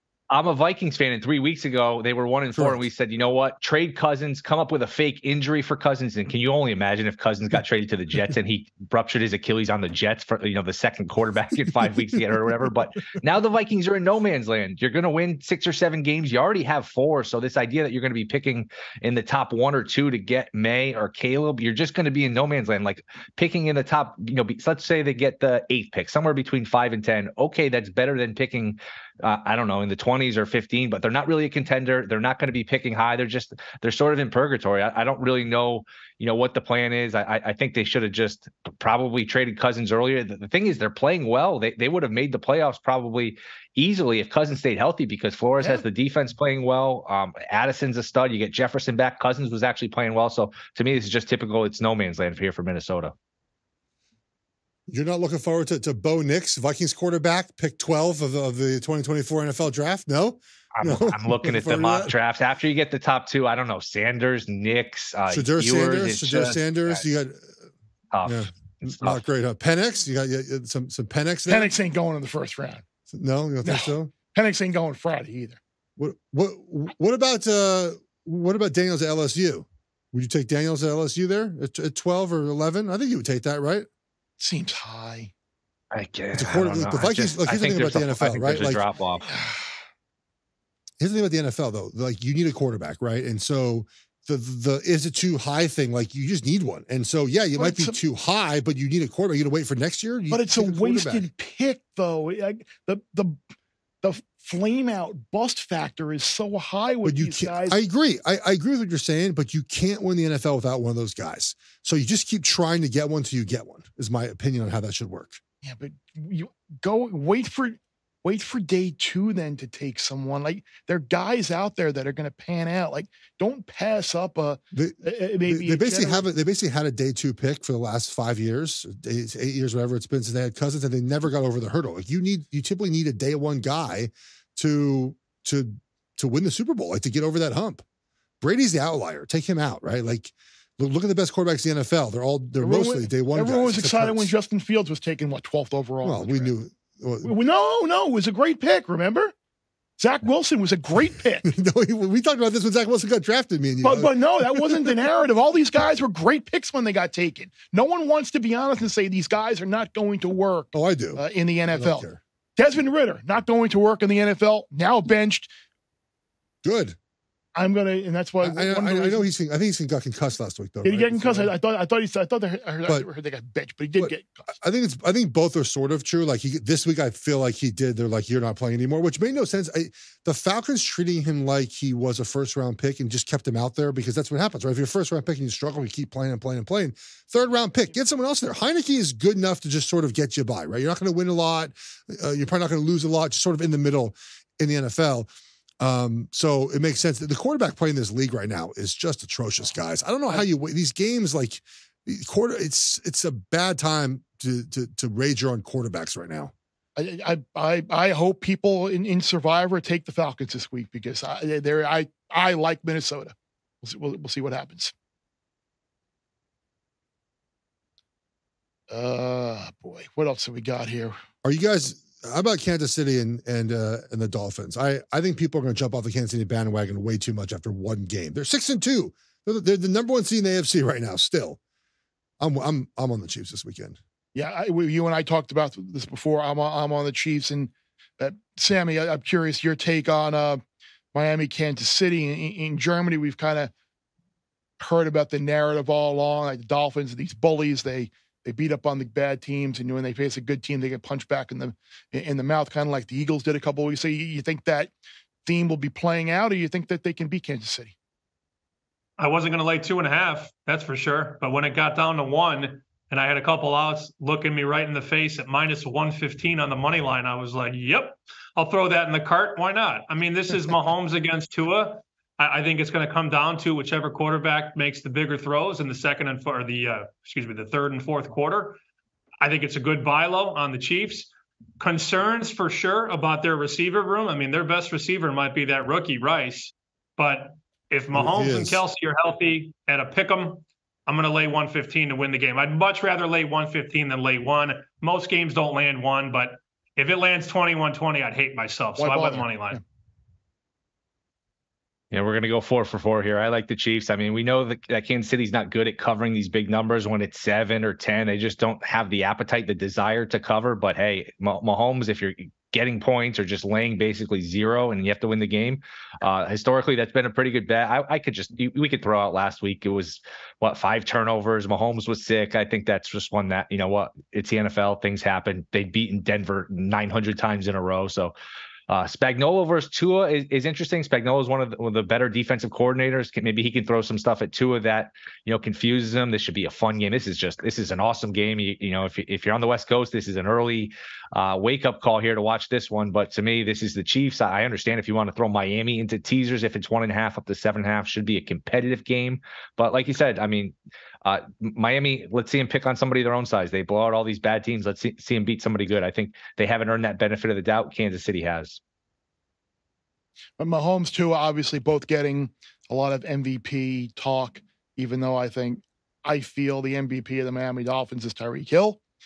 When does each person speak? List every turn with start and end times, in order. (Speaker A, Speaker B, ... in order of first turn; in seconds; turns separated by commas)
Speaker A: 0.3-53.1, Speaker B: 54.9-62.1, Speaker A: 60.8-67.0, Speaker B: 65.3-67.5, Speaker A: 68.1-69.2, Speaker B: 68.2-71.7, Speaker C: 71.5-72.8, Speaker B: 73.1-74.1, Speaker C: 73.6-75.6, Speaker B: 76.0-83.9, Speaker C: 84.4-85.3, Speaker A: 85.9-89.3, Speaker B: 86.3-88.8, Speaker C: 89.3-89.7, Speaker B: 91.0-101.3, Speaker C: 97.6-98.0, Speaker C: 100.3-103.4, Speaker C: 104.0-107.8, Speaker B: 107.0-115.4, Speaker C: 115.6-126.2, Speaker B: 124.7-137.8, Speaker B: 138.4-144.3, Speaker C: 142.6-146.5, Speaker B: 146.0-147.3, Speaker C: 147.2-149.3, Speaker C: 150.0-151.5, Speaker B: 151.4-154.9, Speaker C: 153.8-165.5, Speaker B: 160.7-161.2, Speaker B: 161.7-162.2, Speaker B: 166.6-167.0, Speaker C: 167.6-169.3, Speaker B: 168.4-171.5, Speaker C: 170.8-174.5, Speaker B: 174.0-195.3, Speaker B: 195.8-206.5, Speaker C: 207.0-214.9, Speaker C: 218.9-221.2, Speaker B: 221.4-231.6, Speaker B: 232.4-234.0, Speaker C: 234.3-240.6, Speaker C: 241.1-243.7, Speaker C: 244.8-254.9, Speaker C: 255.4-257.9, Speaker D: 259.2-278.8, Speaker D: 279.4-299.8, Speaker B: 288.1-288.8, Speaker C: 299.0-299.8, Speaker A: 302.1-328.3, Speaker A: 328.9-358.8, Speaker C: 360.6-369.0